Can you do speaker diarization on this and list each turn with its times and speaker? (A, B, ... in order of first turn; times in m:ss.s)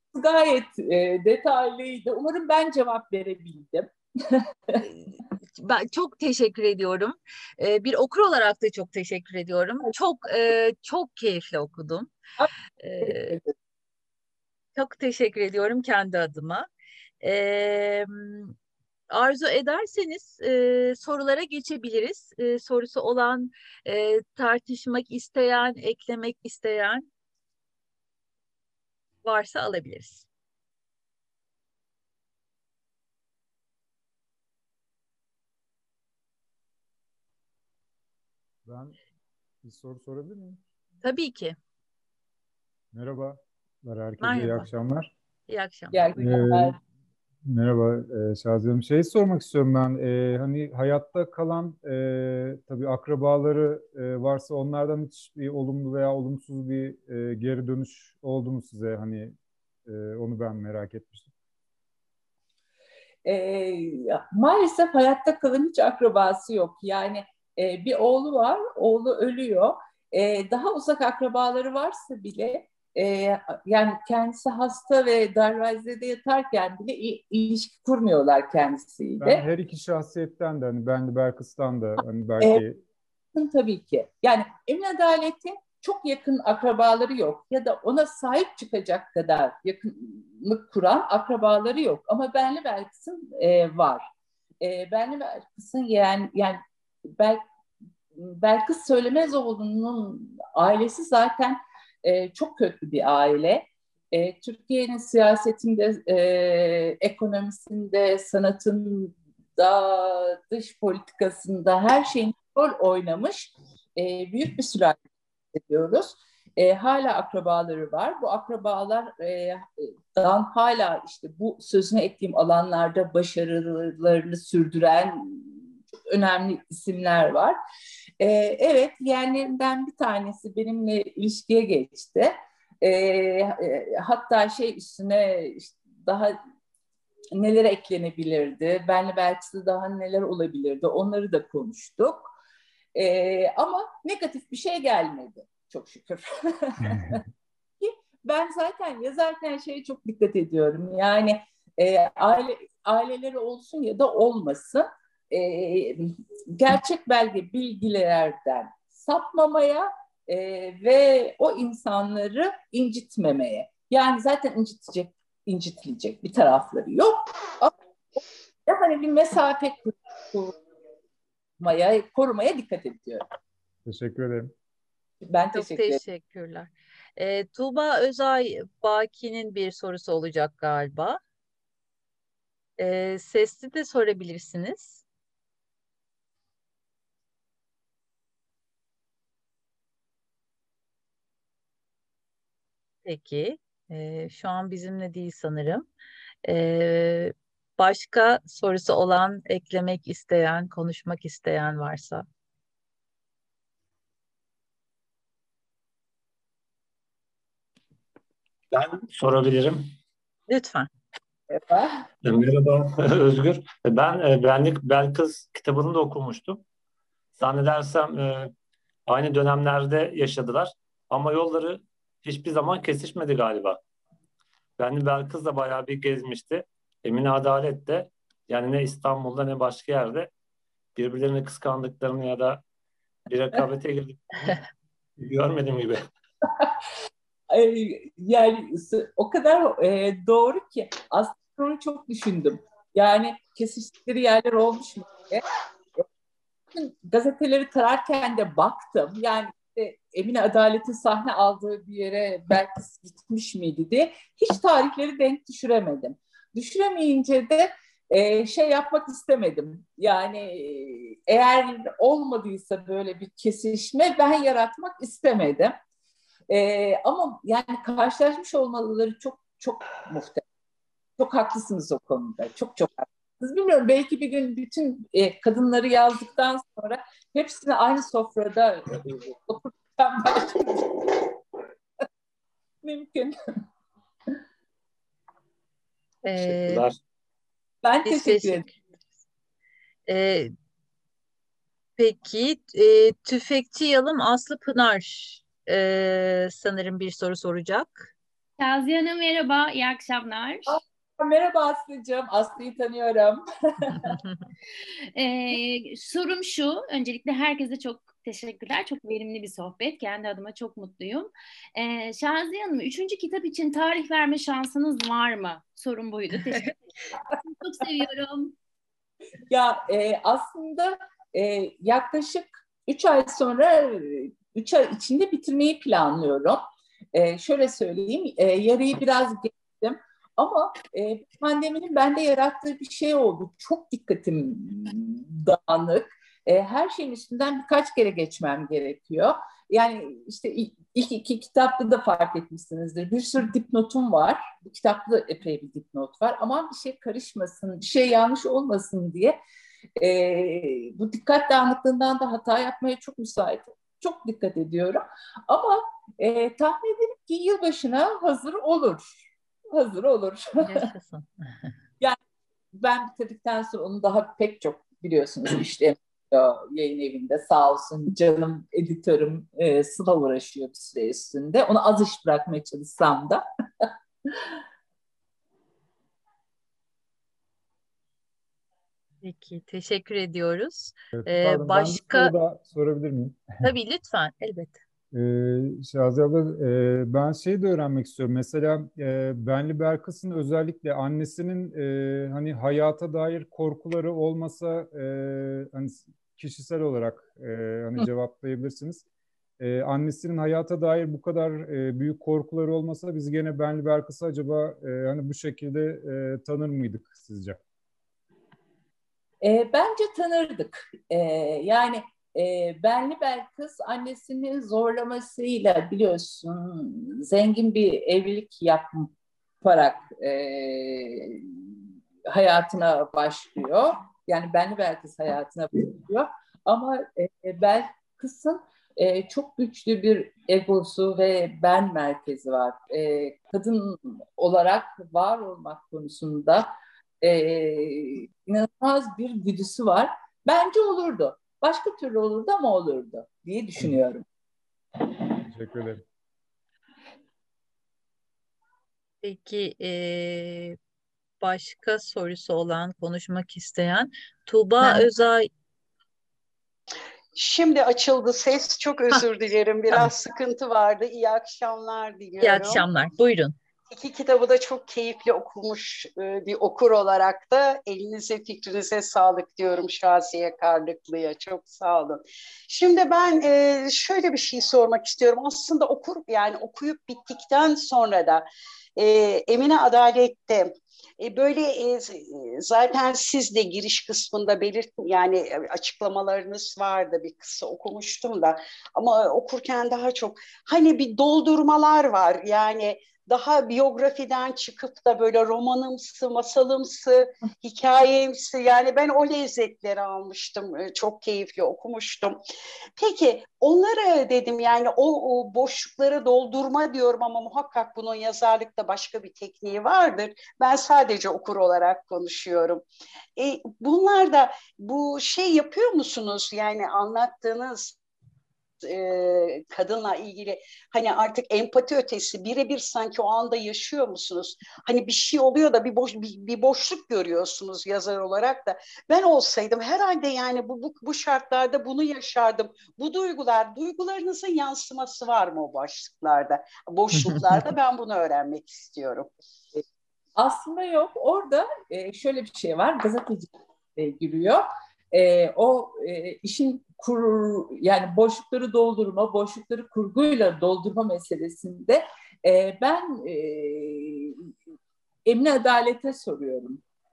0:00.1-0:04.8 A
0:05.6-0:12.1 B
0:12.8-0:13.4 B
0:13.0-0:13.5 A
0:14.8-0:16.7 B
0:17.2-0:18.5 B
0:19.1-0:27.1 B
0:29.2-0:30.3 B
0:38.6-0:39.0 C
0:39.6-0:40.6 C
0:41.0-0:41.6 B
0:42.9-0:45.1 C
0:44.2-0:44.7 B
0:45.5-0:46.2 B
0:45.9-0:46.8 A
0:46.2-0:46.8 C
0:47.4-1:01.3 C
1:03.2-1:19.4 A
1:19.2-1:22.8 C
1:23.3-1:34.1 A
1:34.6-1:37.4 A
1:38.1-1:55.0 A
1:55.5-2:07.6 A
2:08.2-2:16.4 A
2:17.3-2:22.4 A
2:23.0-2:27.2 A
2:27.8-2:50.6 A
2:51.6-2:53.3 A
2:53.8-2:54.5 C
2:55.2-2:56.0 A
2:55.5-3:01.2 B
3:02.8-3:05.0 B
3:13.0-3:15.9 B
3:16.4-3:22.2 B
3:28.7-3:29.9 D
3:30.5-3:30.9 B
3:31.5-3:31.9 A
3:32.2-3:36.6 D
3:37.4-3:38.5 D
3:39.1-3:43.8 D
3:44.8-3:50.3 D
3:51.0-3:52.6 D
3:53.3-3:54.6 D
3:55.2-3:56.0 D
3:57.5-4:05.4 A
4:06.7-4:25.7 A
4:26.5-4:30.4 A
4:31.2-4:41.3 A
4:42.8-4:43.4 A
4:46.2-4:46.8 B
4:46.3-4:47.0 D
4:47.8-4:48.7 A
4:48.1-4:48.7 B
4:50.1-4:50.5 B
4:52.0-4:58.1 B
4:58.6-5:00.8 E
5:00.7-5:04.2 A
5:05.2-5:18.5 E
5:19.5-5:26.6 A
5:27.1-5:49.4 A
5:50.0-6:00.8 A
6:00.6-6:01.3 B
6:02.7-6:13.9 A
6:19.2-6:22.3 B
6:21.2-6:23.4 C
6:23.6-6:24.8 B
6:25.1-6:39.0 C
6:39.6-6:47.6 C
6:49.4-6:59.1 A
6:59.6-7:24.2 A
7:25.5-7:26.0 C
7:29.2-7:30.8 B
7:31.4-7:35.5 B
7:37.4-7:42.9 F
7:42.4-7:43.6 B
7:43.9-7:58.4 F
7:59.0-8:22.4 F
8:23.0-8:32.8 F
8:33.4-8:38.0 F
8:38.8-8:59.3 F
9:00.4-9:14.5 A
9:15.3-9:16.8 A